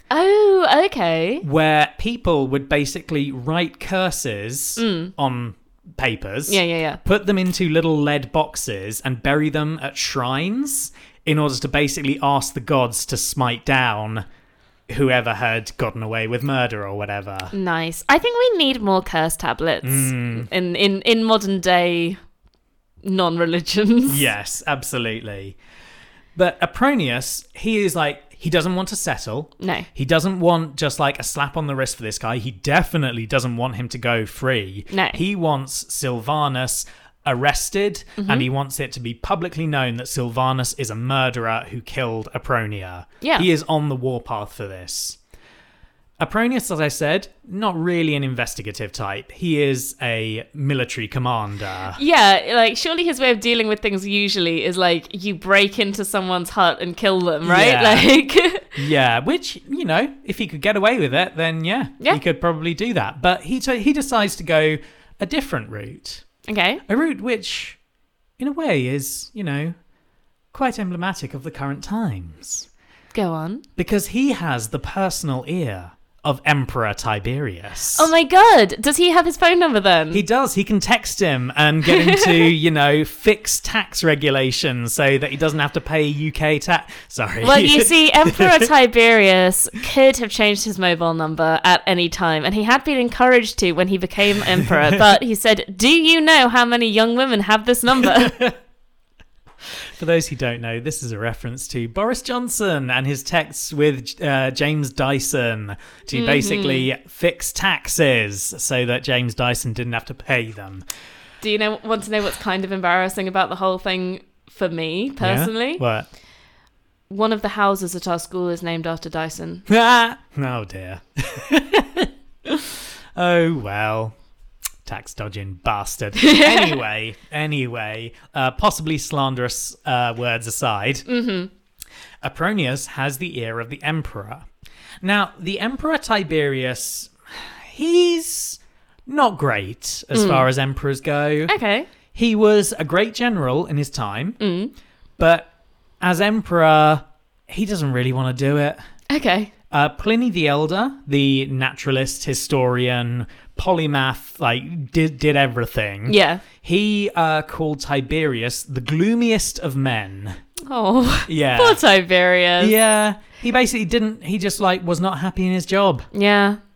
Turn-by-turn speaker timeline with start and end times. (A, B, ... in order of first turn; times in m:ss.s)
0:00.1-0:01.4 A
0:01.4-0:14.2 B
0:04.8-0:05.1 A
0:06.5-0:07.0 A
0:14.9-0:17.5 B
0:17.5-0:22.2 A
0:19.8-0:20.5 B
0:23.0-0:24.3 A
0:24.1-0:25.6 B
0:26.4-0:45.2 B
0:29.6-0:29.9 A
0:34.9-0:35.2 A
0:38.2-0:38.5 A
0:43.2-0:43.5 A
0:46.2-0:52.0 B
0:51.9-0:58.8 A
0:57.4-0:58.1 B
0:58.7-1:06.2 B
1:06.5-1:06.8 A
1:06.9-1:07.8 B
1:08.4-1:09.7 B
1:10.5-1:12.7 B
1:13.1-1:13.6 A
1:13.8-1:18.1 B
1:17.9-1:20.2 A
1:20.1-1:28.7 B
1:21.9-1:22.5 A
1:27.4-1:38.4 A
1:38.0-1:38.6 B
1:39.7-1:50.8 B
1:46.1-1:46.9 A
1:51.4-1:55.8 A
1:55.2-1:56.1 B
1:57.1-1:59.6 A
1:59.7-2:04.1 B
2:04.9-2:11.1 B
2:06.2-2:06.8 A
2:11.1-2:11.5 A
2:12.2-2:14.5 B
2:15.0-2:21.5 B
2:20.1-2:20.4 A
2:21.5-2:21.9 A
2:22.1-2:24.4 B
2:24.4-2:24.7 A
2:25.2-2:25.5 B
2:26.0-2:28.8 B
2:29.1-2:29.5 A
2:29.7-2:40.4 B
2:36.1-2:36.4 A
2:40.7-2:42.7 A
2:41.3-2:41.8 B
2:42.6-2:46.1 B
2:46.1-2:46.6 A